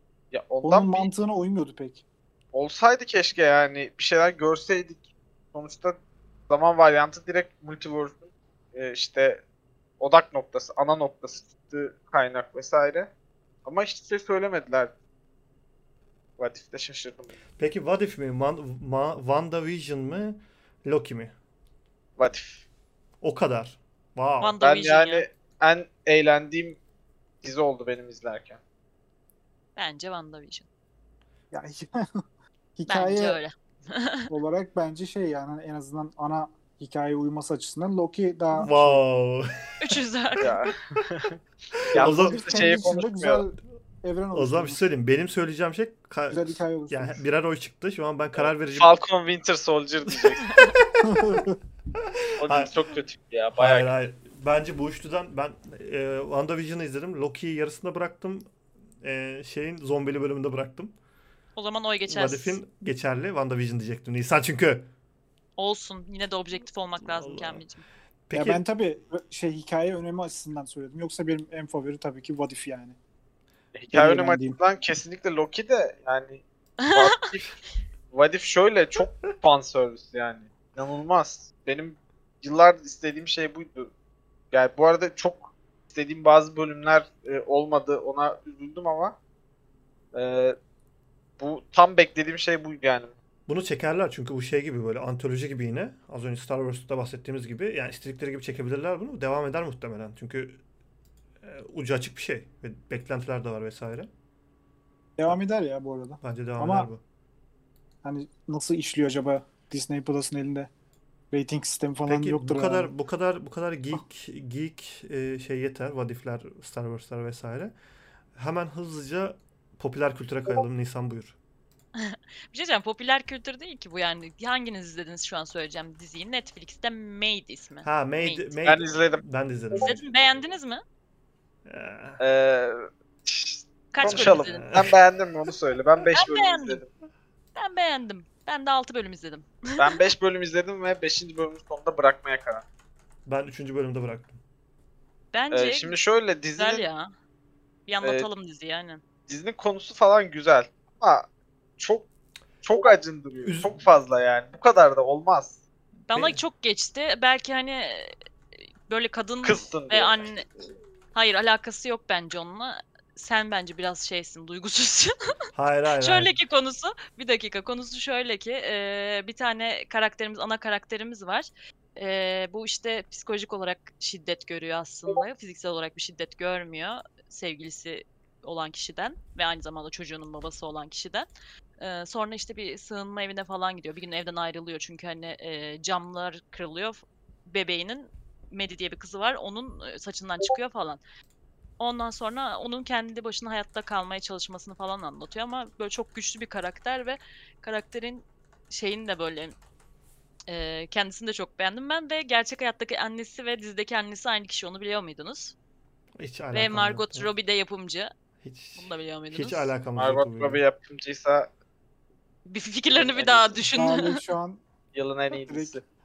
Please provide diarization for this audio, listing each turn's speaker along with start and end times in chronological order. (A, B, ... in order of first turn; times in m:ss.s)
0:00.3-0:01.1 A
0:00.6-0:02.0 B
0:02.5-0:06.0 A
0:06.5-0:09.4 A
0:10.0-0:13.1 A
0:13.6-0:14.9 A
0:16.4-0:17.4 A
0:17.6-0:21.3 C
0:22.2-0:22.6 A
0:23.2-0:24.6 C
0:24.4-0:25.2 D
0:24.6-0:26.8 A
0:27.4-0:28.6 A
0:29.8-0:30.6 D
0:31.5-0:32.1 B
0:32.8-0:33.4 B
0:32.9-0:34.3 D
0:34.3-0:39.0 B
0:38.6-0:39.9 C
0:39.8-0:40.6 D
0:40.4-0:41.4 A
0:41.8-0:42.7 C
0:41.9-0:43.4 A
0:42.0-0:44.8 B
0:44.3-0:49.0 C
0:46.3-0:47.2 B
0:48.4-0:50.6 A
0:51.0-0:51.6 B
0:52.2-0:52.7 C
0:52.4-0:53.9 A
0:53.6-0:58.5 C
0:59.0-1:00.9 C
1:01.6-1:02.6 D
1:02.1-1:04.9 C
1:05.6-1:07.8 D
1:07.0-1:07.6 C
1:08.3-1:08.6 C
1:08.3-1:13.0 B
1:13.7-1:17.5 A
1:13.9-1:14.6 B
1:18.1-1:23.9 A
1:24.5-1:29.2 A
1:30.1-1:30.6 A
1:31.4-1:33.1 A
1:33.5-1:40.6 C
1:41.4-1:44.1 C
1:45.2-1:46.9 B
1:46.2-1:47.0 C
1:48.0-1:50.7 B
1:51.3-1:52.9 B
1:52.1-1:57.7 C
1:58.3-2:01.4 C
2:01.9-2:08.6 D
2:07.8-2:10.0 C
2:08.6-2:09.2 A
2:09.7-2:10.8 D
2:11.6-2:12.2 C
2:12.2-2:16.9 A
2:13.9-2:14.8 D
2:14.0-2:15.0 C
2:16.1-2:16.8 D
2:17.6-2:20.0 D
2:19.8-2:22.6 A
2:23.2-2:24.4 C
2:25.3-2:26.0 D
2:25.5-2:26.8 A
2:26.6-2:27.1 D
2:27.9-2:29.0 D
2:29.3-2:31.3 A
2:31.8-2:32.1 A
2:32.6-2:35.6 A
2:33.4-2:33.8 C
2:36.1-2:38.1 D
2:36.1-2:36.4 C
2:38.9-2:40.5 D
2:39.4-2:40.3 A
2:41.1-2:45.1 D
2:45.5-2:46.3 C
2:46.0-3:01.3 D
3:01.8-3:11.0 D
3:11.8-3:19.5 D
3:20.5-3:25.5 D
3:26.2-3:27.3 C
3:26.5-3:28.1 D
3:28.4-3:30.6 C
3:28.8-3:29.7 D
3:30.0-3:31.5 A
3:32.4-3:34.2 D
3:32.9-3:33.7 A
3:33.7-3:34.6 B
3:34.9-3:35.8 A
3:35.3-3:35.8 B